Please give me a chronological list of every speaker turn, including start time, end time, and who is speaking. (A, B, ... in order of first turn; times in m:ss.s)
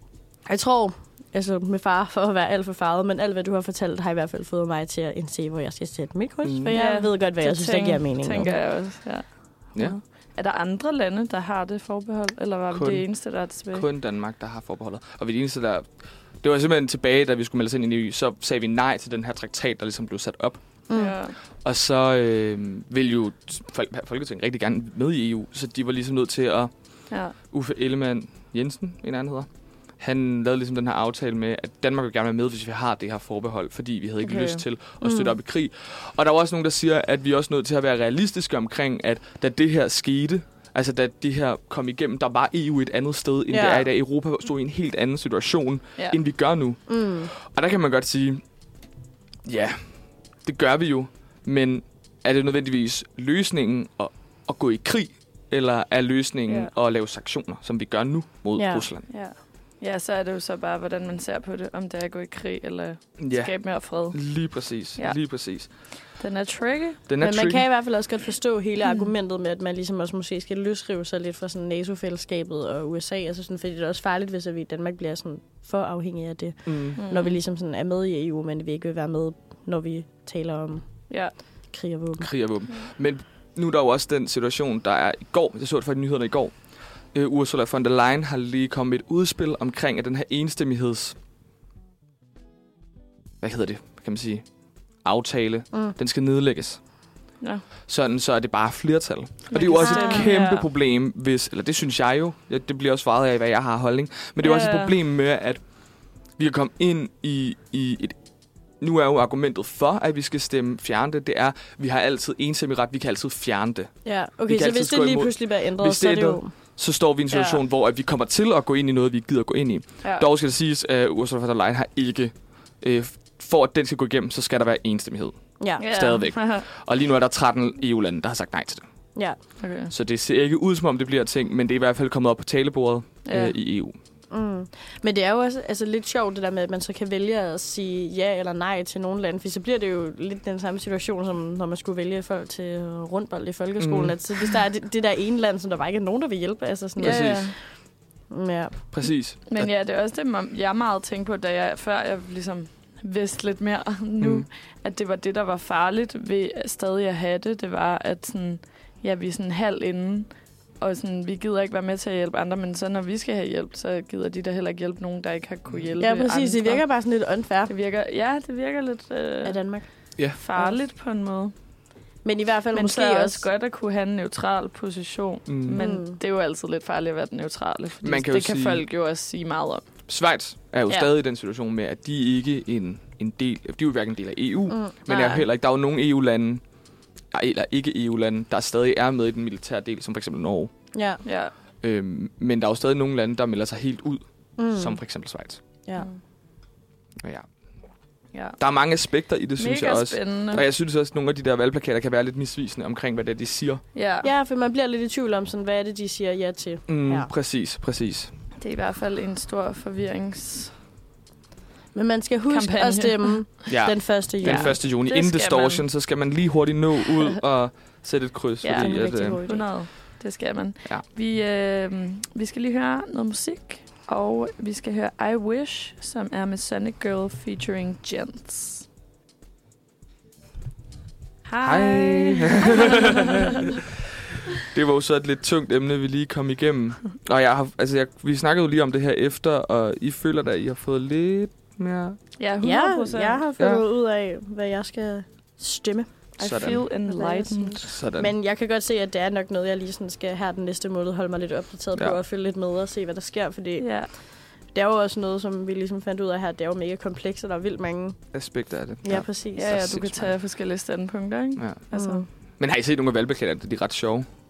0:00.4-0:08.5 A
0:06.4-0:06.8 B
0:06.7-0:09.2 C
0:09.8-0:13.8 C
0:12.7-0:13.0 B
0:13.6-0:15.8 B
0:16.4-0:20.6 B
0:20.9-0:21.2 A
0:21.0-0:21.4 C
0:21.6-0:26.7 B
0:27.5-0:29.5 B
0:30.0-0:48.4 B
0:34.2-0:34.6 C
0:35.0-0:35.3 A
0:43.5-0:43.9 A
0:46.9-0:47.3 A
0:49.4-0:49.8 B
0:50.4-0:59.1 B
0:58.5-0:58.9 A
0:59.1-1:04.2 C
1:03.2-1:03.5 B
1:04.0-1:05.7 B
1:06.2-1:07.0 C
1:07.1-1:07.6 B
1:07.2-1:20.9 A
1:16.6-1:17.0 B
1:17.0-1:17.4 C
1:21.7-1:22.3 A
1:22.2-1:26.5 B
1:27.1-1:31.2 B
1:33.4-1:34.4 B
1:35.0-1:36.8 B
1:37.9-1:45.6 B
1:39.5-1:40.6 C
1:39.5-1:40.3 A
1:44.4-1:44.9 C
1:46.4-1:48.2 B
1:48.8-1:53.9 B
1:54.0-1:56.5 A
1:54.5-2:08.8 B
1:57.3-1:57.6 C
2:05.6-2:05.8 A
2:05.8-2:06.6 C
2:09.6-2:09.9 C
2:09.9-2:13.9 B
2:13.2-2:13.5 C
2:14.3-2:27.5 A
2:23.8-2:24.2 B
2:27.0-2:27.5 C
2:27.0-2:27.4 B
2:28.3-2:28.8 A
2:28.9-2:29.7 B
2:29.5-2:46.8 C
2:34.2-2:34.4 B
2:46.0-2:47.7 A
2:47.7-2:49.6 C
2:49.4-2:49.9 A
2:50.3-2:51.5 C
2:52.2-2:53.4 A
2:52.7-2:59.8 C
2:55.5-2:55.8 B
2:55.7-2:56.2 A
2:58.0-2:58.8 B
3:00.1-3:06.6 B
3:04.7-3:05.4 A
3:05.1-3:05.4 C
3:07.3-3:10.7 B
3:10.9-3:11.2 A
3:11.2-3:11.5 C
3:11.8-3:15.6 B
3:14.6-3:15.0 A
3:18.6-3:23.8 B
3:19.6-3:20.6 C
3:23.9-3:24.3 C
3:24.2-3:27.3 A
3:26.9-3:28.3 B
3:28.6-3:30.7 C
3:31.9-3:34.8 A
3:32.5-3:33.3 C
3:33.7-3:39.4 B
3:34.4-3:35.8 C
3:38.6-3:48.8 C
3:38.7-3:39.6 A
3:51.5-3:53.8 C
3:51.6-3:53.9 B
3:54.5-4:02.2 B
4:02.4-4:03.4 C
4:02.6-4:06.1 A
4:06.4-4:07.9 C
4:06.4-4:06.8 B
4:07.1-4:13.9 A
4:07.8-4:08.3 B
4:13.8-4:14.1 C
4:14.7-4:18.2 A
4:18.3-4:20.3 B
4:19.0-4:19.8 A
4:19.5-4:22.2 C
4:21.9-4:22.2 A
4:22.6-4:24.3 B